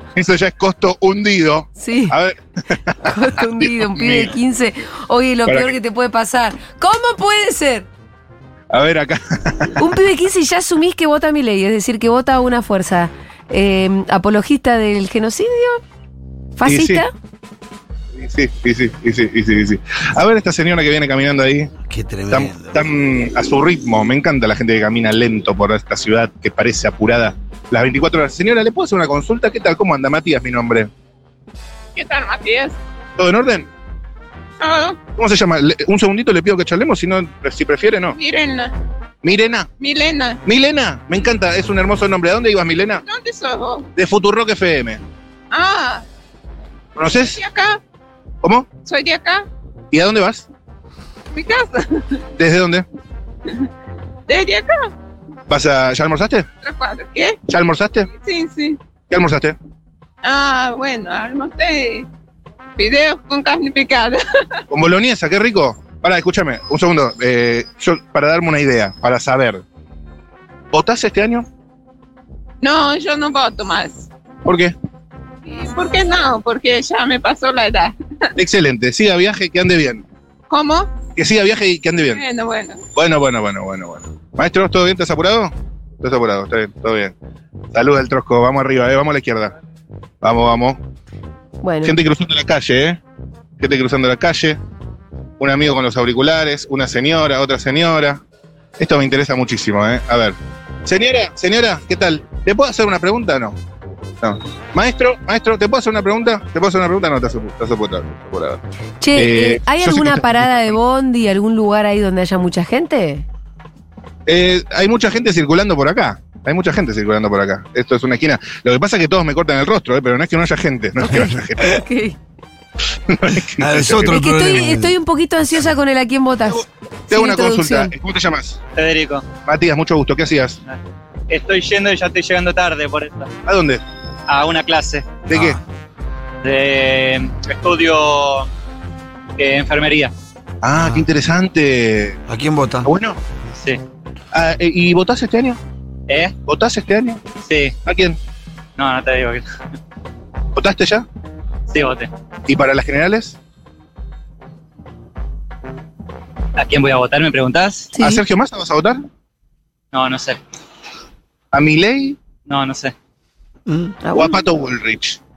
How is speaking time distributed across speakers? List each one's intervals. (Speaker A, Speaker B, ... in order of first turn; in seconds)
Speaker A: 0.1-4.3, 5.5-5.8, 8.7-9.8, 16.6-17.0, 18.1-21.7, 22.3-30.9, 33.2-33.7, 35.1-38.1, 39.2-39.7, 40.4-43.0, 43.9-45.0, 47.0-47.4, 48.4-48.7, 49.9-50.5, 52.4-52.8, 55.5-56.5, 57.5-58.1, 59.1-59.5, 64.7-69.6, 70.7-71.5, 74.4-74.7, 78.3-80.0, 81.1-82.2, 82.9-87.1, 87.7-89.5, 90.2-90.8, 91.8-93.0, 93.6-94.6, 95.4-98.2, 98.8-103.6, 104.2-108.6, 109.1-110.8, 114.3-121.8, 123.1-124.2, 126.5-128.6, 129.4-130.6, 133.4-133.8, 135.3-135.6, 140.6-142.2, 142.8-143.2, 144.3-145.6, 146.4-147.2, 147.8-148.2, 150.5-151.1, 152.5-153.4, 158.0-159.0, 161.5-162.2, 164.1-165.2
Speaker B: 1.8-2.1, 3.1-7.9, 9.8-15.8, 16.6-17.1, 91.6-91.9, 109.0-113.2, 121.0-122.2, 124.1-127.9, 157.9-158.2, 164.0-164.4
Speaker C: 21.9-22.9, 123.6-125.0, 135.3-135.6, 140.8-141.0, 142.3-142.9, 163.7-163.9
Speaker D: 31.9-32.8, 34.6-35.0, 38.1-38.7, 39.8-40.4, 43.0-43.9, 45.5-46.0, 47.2-47.8, 48.8-49.5, 51.3-52.2, 54.3-54.9, 56.6-57.4, 58.2-58.8, 60.2-62.1, 62.8-64.2, 72.6-74.1, 75.4-77.9, 80.5-81.0, 82.1-82.8
Speaker E: 128.7-129.3, 131.3-133.3, 134.3-135.2, 136.4-138.5, 139.4-140.1, 146.1-146.3, 147.4-147.7, 148.8-149.5, 151.7-152.1, 156.6-157.9, 159.9-160.4, 162.4-162.9